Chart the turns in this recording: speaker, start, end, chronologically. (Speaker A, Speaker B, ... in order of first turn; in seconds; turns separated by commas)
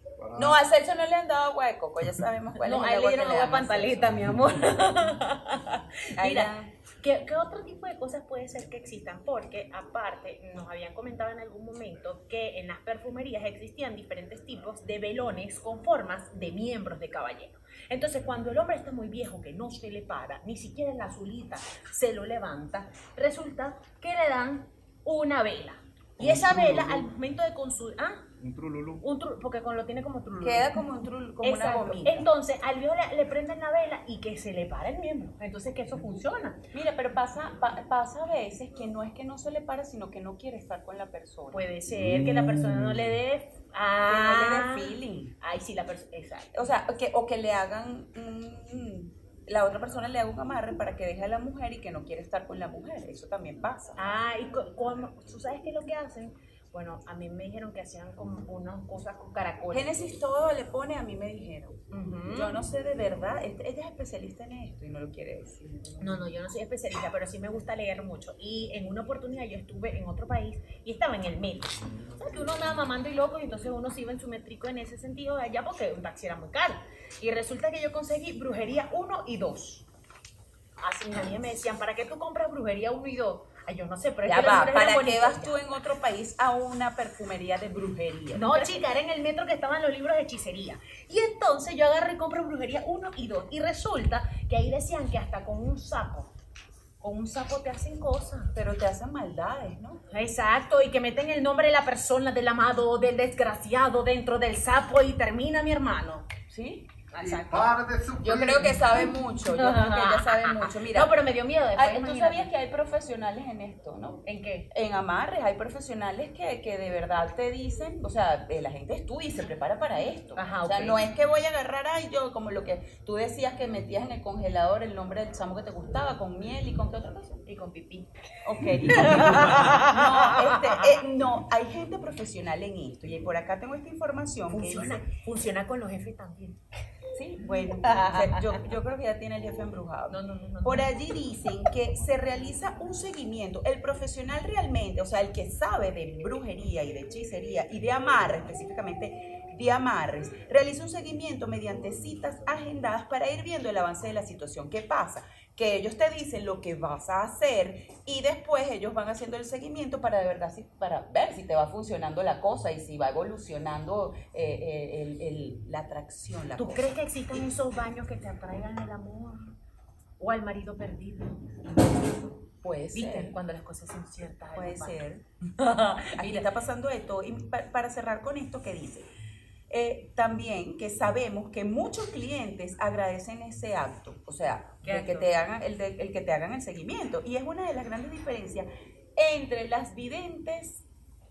Speaker A: 0.2-0.5, Speaker B: 0.3-4.2, Speaker C: 2.6-28.3, Speaker B: 6.2-6.7, Speaker A: 26.2-27.1, Speaker A: 28.4-29.0, Speaker C: 29.0-30.7, Speaker B: 30.4-32.3, Speaker C: 31.4-36.6, Speaker B: 36.7-41.7, Speaker C: 41.5-46.5, Speaker B: 44.0-45.3, Speaker B: 46.5-54.0, Speaker C: 54.0-60.0, Speaker B: 59.7-66.2, Speaker C: 61.9-62.6, Speaker C: 66.0-79.9, Speaker C: 80.8-85.6, Speaker B: 84.2-88.8, Speaker C: 88.3-96.3, Speaker C: 97.0-98.5, Speaker B: 98.5-100.0, Speaker C: 100.1-106.3, Speaker B: 106.5-106.9, Speaker C: 107.1-107.8, Speaker A: 107.2-108.8, Speaker B: 108.2-127.4, Speaker C: 108.9-112.5, Speaker C: 114.2-114.7, Speaker C: 120.3-121.0, Speaker C: 127.5-128.1, Speaker B: 128.4-135.0, Speaker C: 128.8-131.0, Speaker C: 134.5-136.6, Speaker B: 137.1-166.9, Speaker C: 137.8-138.6, Speaker C: 140.1-140.9, Speaker C: 166.6-169.6, Speaker C: 170.2-172.2, Speaker B: 171.7-173.4, Speaker C: 172.9-175.0, Speaker B: 174.5-175.2, Speaker C: 175.5-176.5, Speaker B: 176.2-179.1, Speaker B: 179.7-190.8, Speaker C: 184.8-185.3